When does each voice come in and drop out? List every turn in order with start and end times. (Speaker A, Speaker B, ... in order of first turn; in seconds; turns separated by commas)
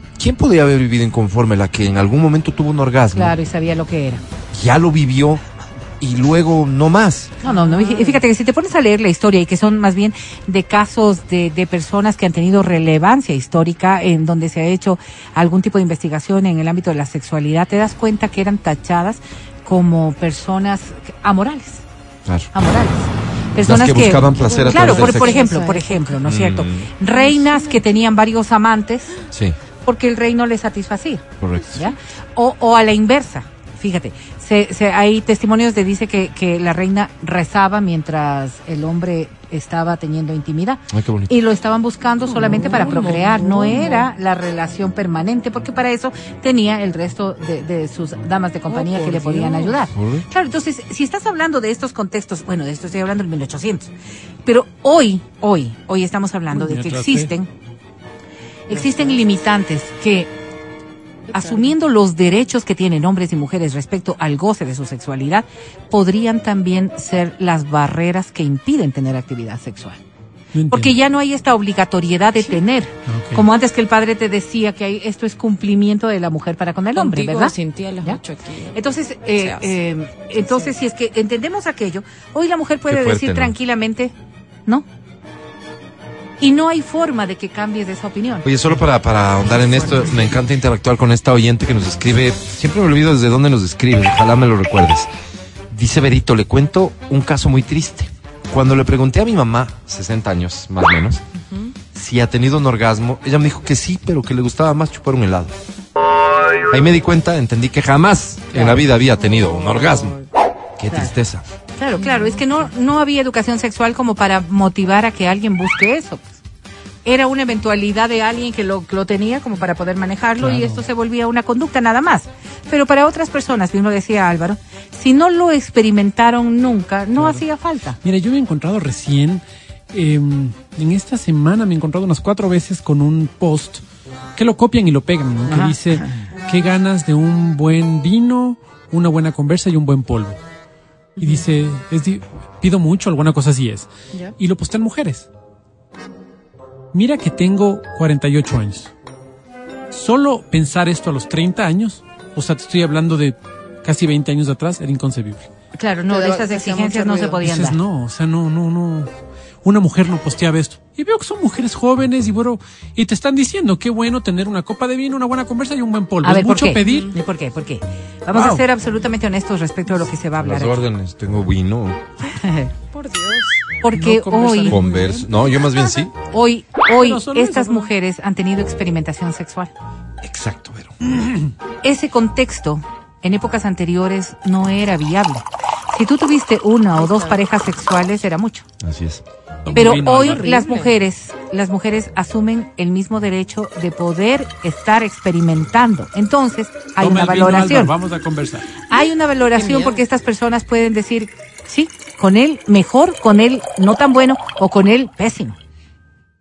Speaker A: 0.2-3.4, Speaker B: 3.1-4.2, Speaker A: 4.5-5.4, Speaker A: 6.0-7.3, Speaker C: 7.4-8.2, Speaker B: 7.4-21.8, Speaker A: 22.3-22.5, Speaker B: 22.5-29.2, Speaker A: 23.6-25.4, Speaker C: 24.4-26.2, Speaker A: 26.2-26.9, Speaker C: 27.1-27.8, Speaker B: 29.8-31.2, Speaker A: 31.4-31.9, Speaker B: 31.8-53.9, Speaker A: 40.9-41.3, Speaker C: 42.3-44.1, Speaker C: 48.7-49.8, Speaker A: 49.9-50.2, Speaker B: 54.5-57.5, Speaker D: 56.5-57.3, Speaker B: 58.7-60.3, Speaker C: 58.7-59.2, Speaker B: 61.3-70.0, Speaker C: 61.3-61.6, Speaker D: 70.5-70.9, Speaker B: 70.7-78.2, Speaker D: 73.1-73.5, Speaker C: 77.0-78.8, Speaker B: 78.7-84.1, Speaker C: 79.3-79.7, Speaker A: 82.9-83.5, Speaker B: 86.4-88.5, Speaker A: 88.5-95.1, Speaker C: 89.5-90.4, Speaker A: 95.7-101.2, Speaker C: 101.4-101.7, Speaker A: 102.0-105.6, Speaker A: 106.7-110.2, Speaker C: 108.5-110.3, Speaker A: 110.8-111.4, Speaker B: 111.8-116.4, Speaker C: 112.0-112.4, Speaker B: 117.0-128.0, Speaker D: 120.4-120.8, Speaker D: 127.2-127.4, Speaker D: 128.0-133.8, Speaker D: 134.4-140.4, Speaker B: 135.5-136.2, Speaker C: 141.2-141.4, Speaker D: 141.2-145.3, Speaker D: 146.9-148.9, Speaker D: 149.9-155.5, Speaker B: 155.8-157.8, Speaker C: 156.1-157.4, Speaker D: 157.4-159.1, Speaker D: 159.6-167.1, Speaker B: 166.2-170.9, Speaker C: 166.8-167.2, Speaker D: 168.3-168.6, Speaker A: 170.4-172.0, Speaker B: 172.2-172.7, Speaker C: 172.9-173.6, Speaker B: 173.8-174.8, Speaker D: 173.9-175.3, Speaker A: 174.7-176.1, Speaker B: 176.3-179.7, Speaker D: 177.0-177.9, Speaker A: 180.2-180.9, Speaker B: 181.8-188.7, Speaker C: 187.0-187.4, Speaker A: 188.8-189.2, Speaker D: 189.7-190.6, Speaker B: 189.7-197.9, Speaker C: 190.3-190.9, Speaker D: 197.0-198.7, Speaker B: 198.9-205.6, Speaker C: 199.6-200.0